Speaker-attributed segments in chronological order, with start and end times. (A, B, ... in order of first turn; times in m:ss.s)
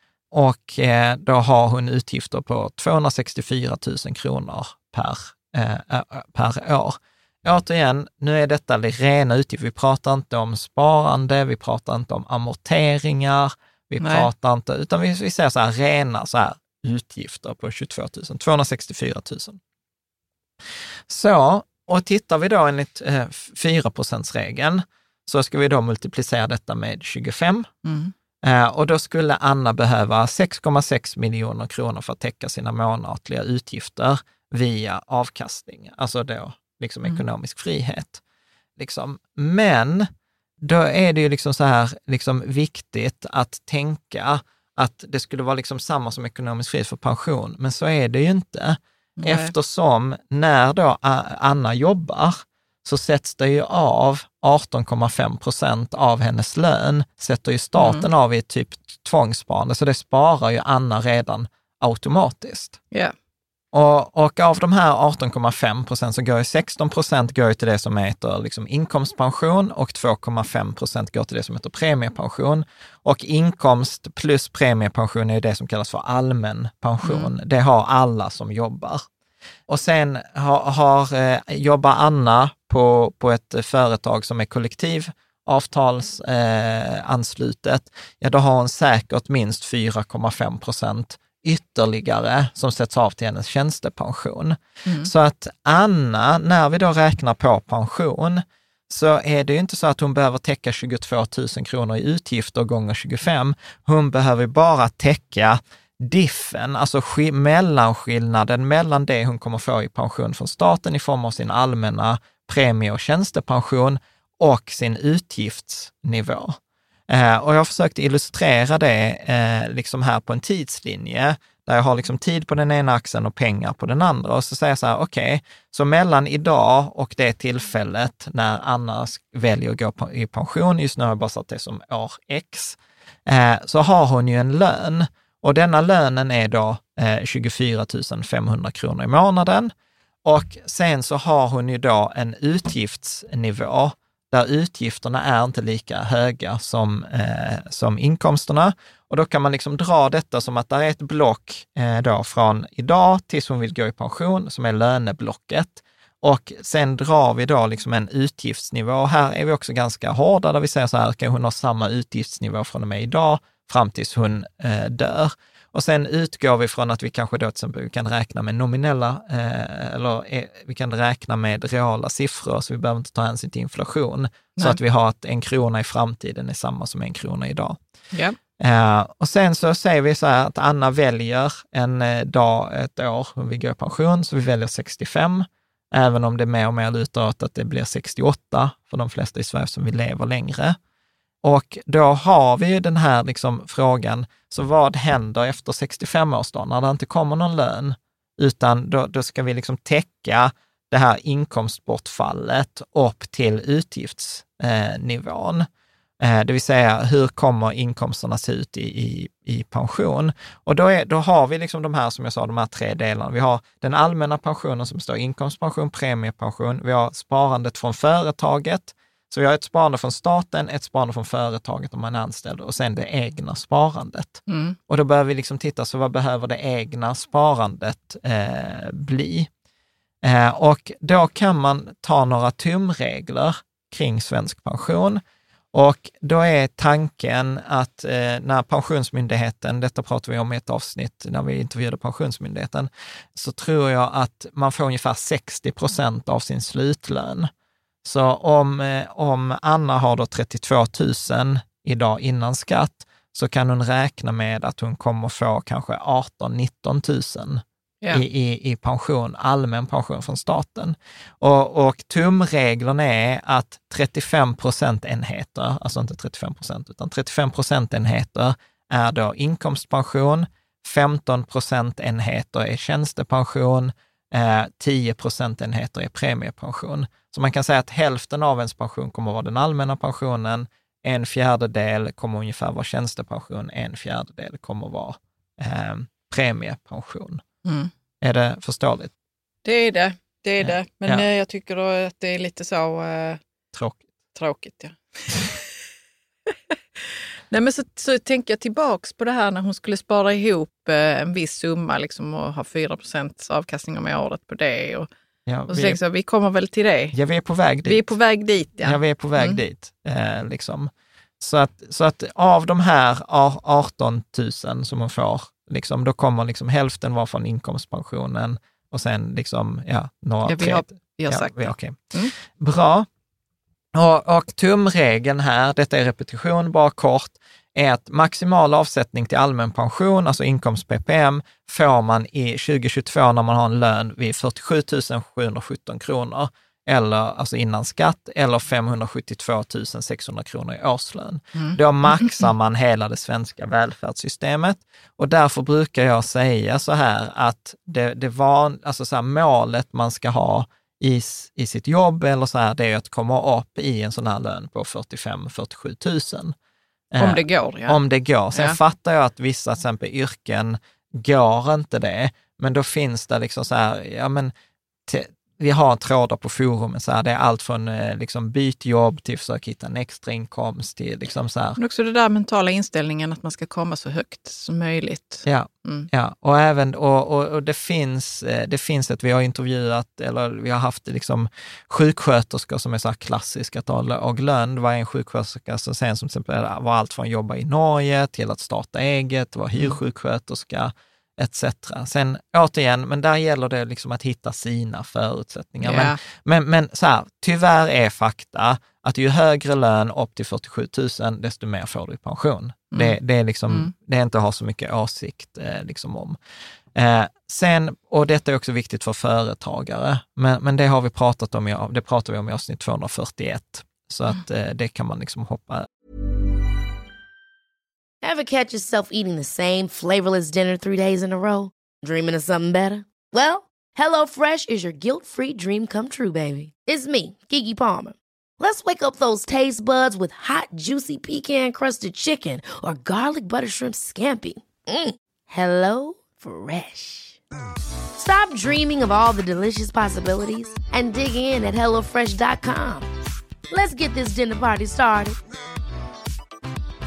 0:00.3-0:19.6 A
0:14.0-0:14.3 B
0:21.1-0:27.7 A
0:27.8-0:28.1 B
0:28.4-0:38.2 A
0:38.8-0:40.1 A
0:40.6-1:02.8 A
0:49.2-0:49.5 B
0:57.8-0:58.1 B
1:03.7-1:19.0 A
1:17.0-1:17.3 B
1:19.7-1:56.6 A
1:34.9-1:35.1 B
1:57.1-2:19.7 A
2:20.2-2:57.8 A
2:58.6-3:10.8 A
3:11.4-3:25.7 A
3:26.2-3:49.5 A
3:44.5-3:44.8 B
3:50.2-3:55.2 A
3:55.7-4:07.5 A
4:08.0-4:47.4 A
4:47.6-4:47.9 B
4:48.2-4:49.1 A
4:49.6-4:53.4 B
4:50.6-4:51.3 A
4:53.7-4:54.0 A
4:54.4-4:55.7 B
4:56.5-5:05.1 B
5:05.5-5:06.0 A
5:05.7-5:07.2 B
5:07.1-5:08.2 A
5:07.8-5:09.6 B
5:08.8-5:23.1 A
5:20.5-5:22.3 B
5:24.0-5:56.6 A
5:41.6-5:42.5 B
5:57.1-6:04.5 A
5:57.2-5:58.0 B
5:58.5-5:58.8 B
6:05.1-6:11.8 A
6:11.8-6:16.1 B
6:15.4-6:46.4 A
6:35.8-6:36.2 B
6:42.9-6:43.2 B
6:47.0-6:55.9 A
6:58.2-7:17.4 C
7:18.2-7:23.1 C
7:23.7-7:25.4 C